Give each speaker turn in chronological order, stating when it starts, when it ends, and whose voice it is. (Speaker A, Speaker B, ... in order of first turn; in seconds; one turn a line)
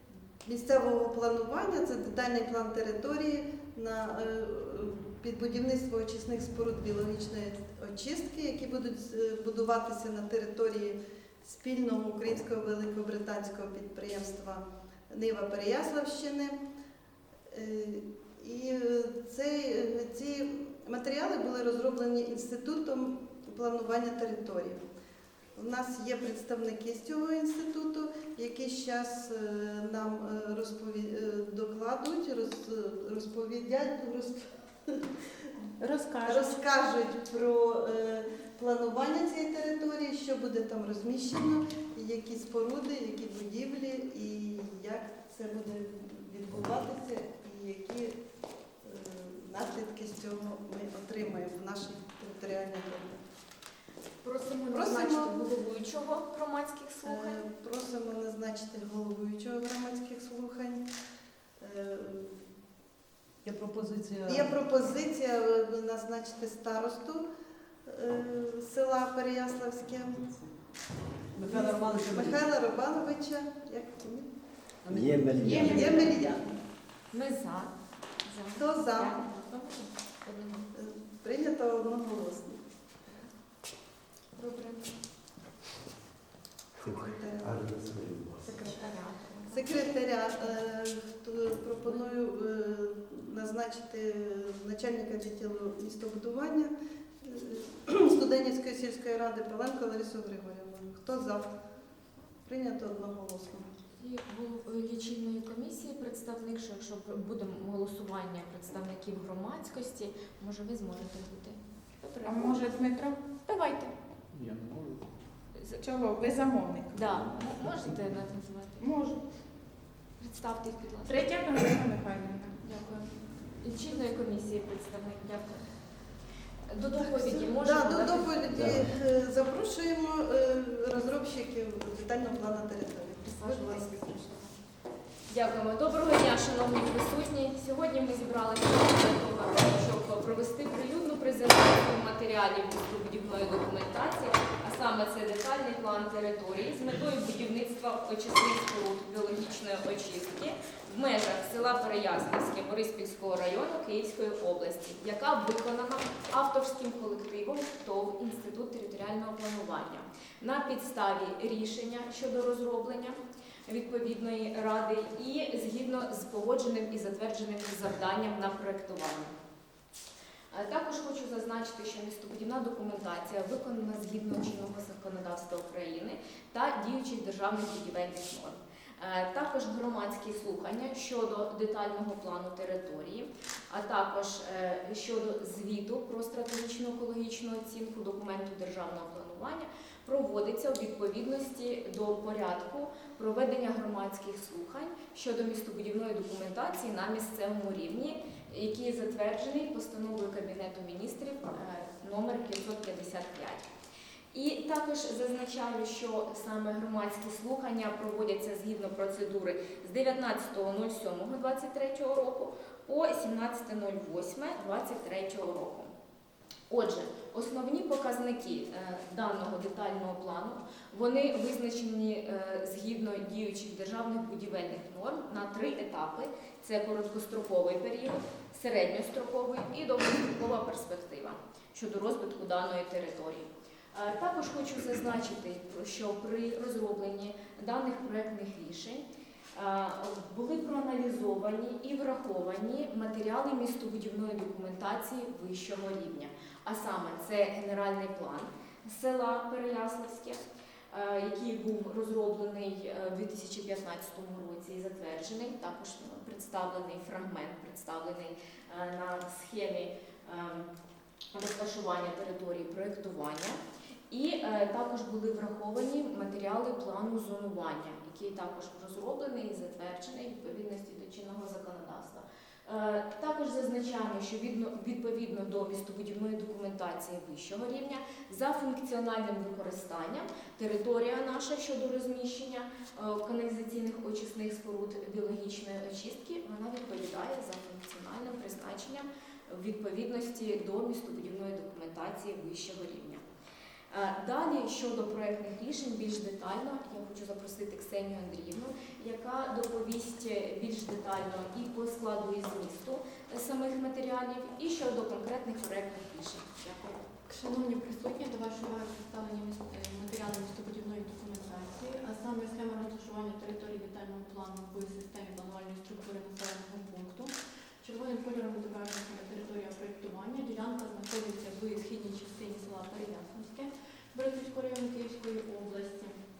Speaker A: 0.4-16.6
Speaker A: 17.5-24.8
Speaker A: 25.5-35.5
Speaker B: 35.8-36.5
Speaker A: 36.2-48.2
Speaker A: 48.8-53.2
Speaker C: 54.2-57.4
Speaker A: 54.7-55.4
Speaker A: 57.0-60.8
Speaker A: 61.6-62.4
Speaker D: 63.4-64.5
Speaker A: 64.2-67.3
Speaker A: 67.8-70.3
Speaker D: 71.3-72.4
Speaker A: 71.4-74.3
Speaker D: 74.8-76.0
Speaker E: 74.9-76.1
Speaker B: 75.4-76.0
Speaker A: 75.5-76.5
Speaker C: 77.1-80.7
Speaker A: 78.5-79.3
Speaker A: 80.7-82.6
Speaker C: 83.0-83.3
Speaker C: 84.3-84.9
Speaker A: 86.8-87.7
Speaker E: 86.8-88.7
Speaker C: 88.5-90.0
Speaker A: 88.5-88.8
Speaker A: 89.5-101.5
Speaker A: 102.4-103.7
Speaker C: 104.0-112.6
Speaker B: 112.2-113.2
Speaker C: 113.4-113.9
Speaker E: 114.4-114.9
Speaker B: 115.8-117.0
Speaker C: 116.9-118.8
Speaker B: 118.8-119.2
Speaker C: 120.2-121.2
Speaker B: 121.0-122.6
Speaker F: 122.6-124.1
Speaker C: 123.6-125.7
Speaker C: 126.7-128.3
Speaker A: 127.0-134.1
Speaker E: 128.5-128.8
Speaker C: 133.2-134.6
Speaker C: 135.3-169.3
Speaker C: 170.5-203.7
Speaker C: 204.3-215.9
Speaker C: 216.7-260.7
Speaker C: 261.3-293.2
Speaker C: 293.9-307.0
Speaker F: 307.2-326.2